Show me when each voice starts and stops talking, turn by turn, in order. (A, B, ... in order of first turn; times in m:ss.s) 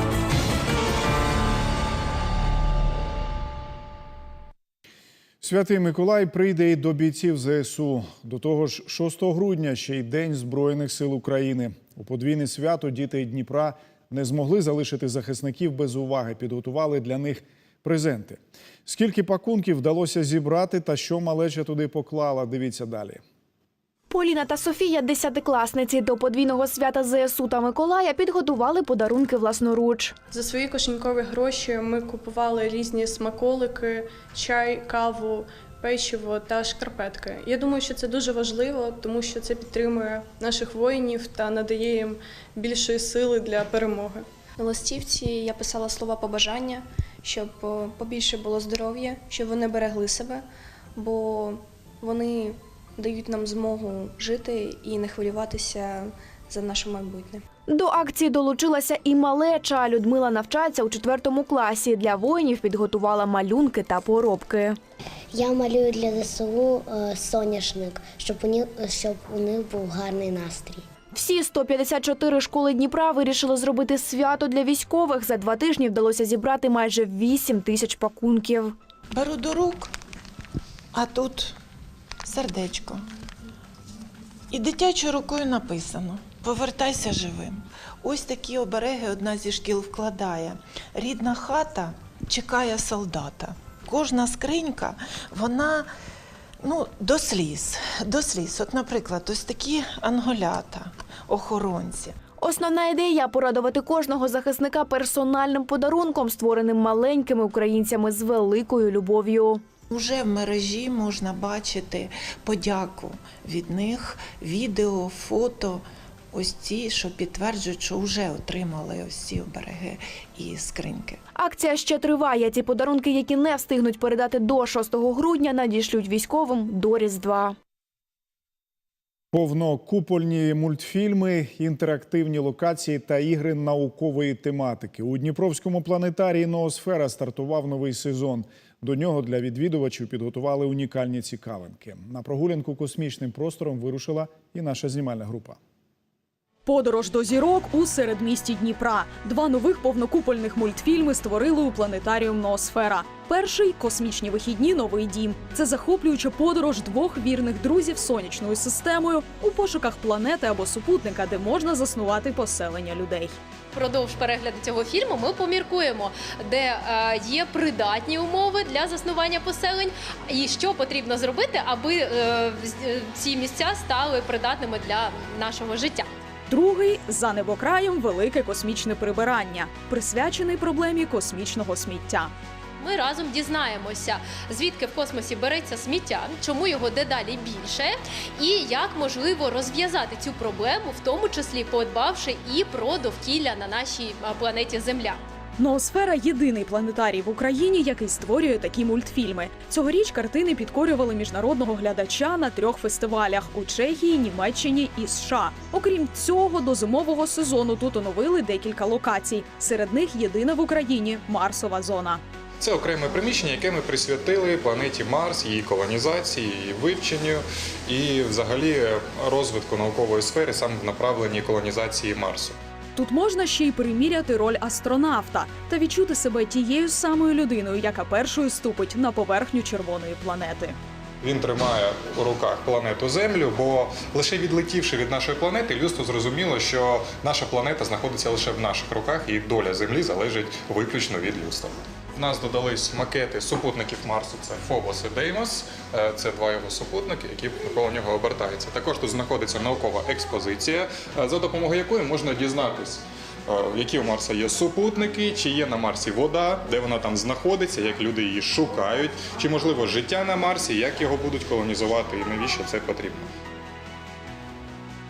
0:05.4-0:23.2 A
0:24.1-0:30.2 B
0:30.3-0:44.3 C
0:44.6-0:57.4 D
0:57.7-1:04.8 B
1:05.3-1:10.8 E
1:11.1-1:18.8 B
1:19.1-1:19.9 F
1:20.9-1:21.6 F
1:22.2-1:23.0 F
1:24.5-1:35.9 F
1:36.6-1:42.2 F
1:42.4-1:49.6 B
1:49.9-2:01.2 F
2:01.4-2:07.6 B
2:09.3-2:25.6 A
2:26.7-2:43.4 G
2:43.7-2:56.1 H
2:56.5-3:02.3 G
3:02.8-3:15.2 H
3:15.6-3:32.2 G
3:32.6-3:42.6 I
3:43.0-3:50.8 G
3:51.2-4:23.3 I